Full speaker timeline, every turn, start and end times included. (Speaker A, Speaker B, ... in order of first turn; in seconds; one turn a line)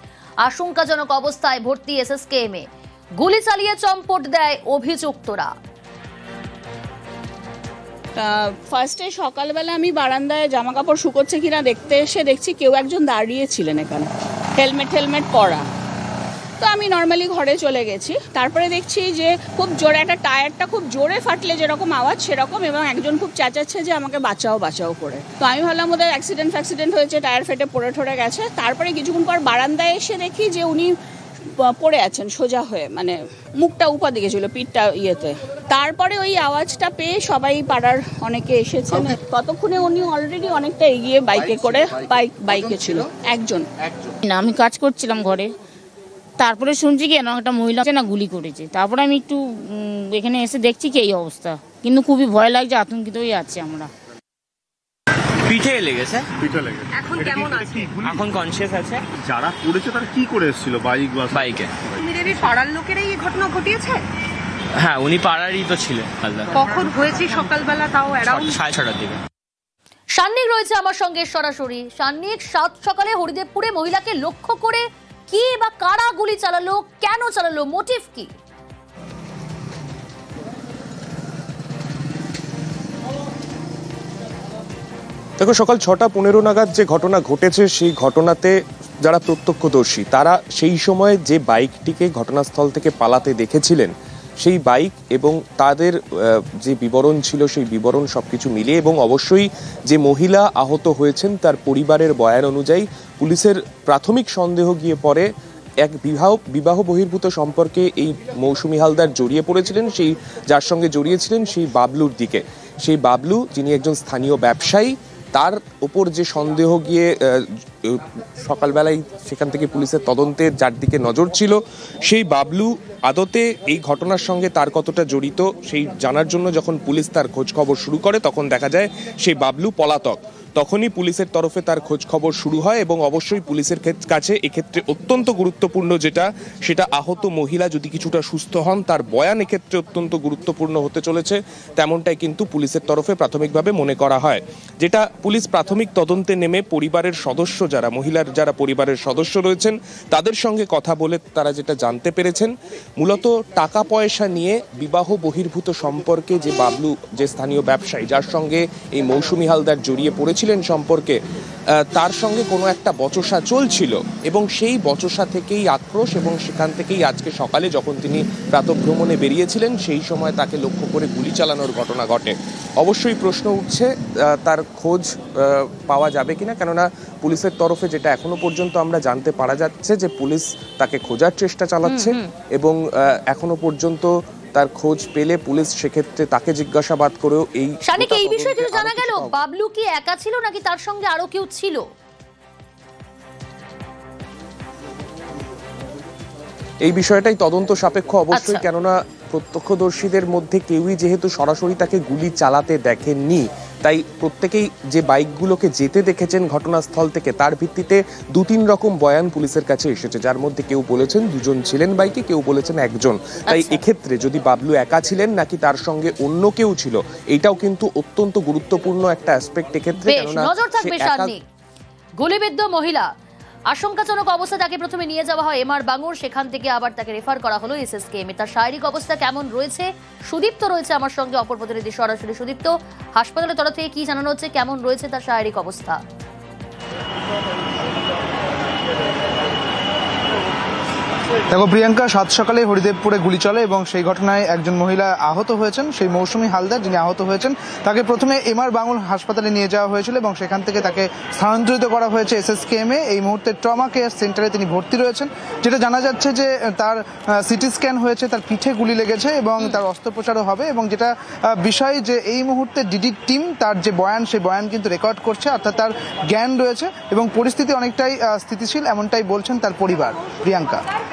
Speaker A: 0.4-2.6
Speaker A: 3.2-5.5
Speaker B: 8.2-15.6
Speaker B: 16.6-30.9
Speaker B: 31.6-43.6
Speaker C: 44.2-45.5
Speaker C: 46.4-53.9
Speaker D: 55.5-56.3
Speaker E: 56.4-58.4
Speaker F: 57.0-57.9
Speaker D: 58.0-59.0
Speaker E: 59.2-62.0
Speaker D: 61.3-61.7
Speaker F: 62.0-64.0
Speaker D: 64.7-66.6
Speaker F: 66.5-68.6
Speaker D: 68.3-69.2
Speaker A: 70.2-78.3
Speaker G: 85.4-105.3
Speaker G: 105.8-161.2
Speaker G: 161.8-189.3
Speaker A: 181.8-182.3
Speaker A: 187.9-191.8
Speaker G: 196.8-221.3
Speaker A: 198.3-198.6
Speaker A: 213.5-213.8
Speaker A: 220.0-221.4
Speaker A: 222.2-223.1
Speaker A: 223.7-236.0
Speaker H: 241.5-270.8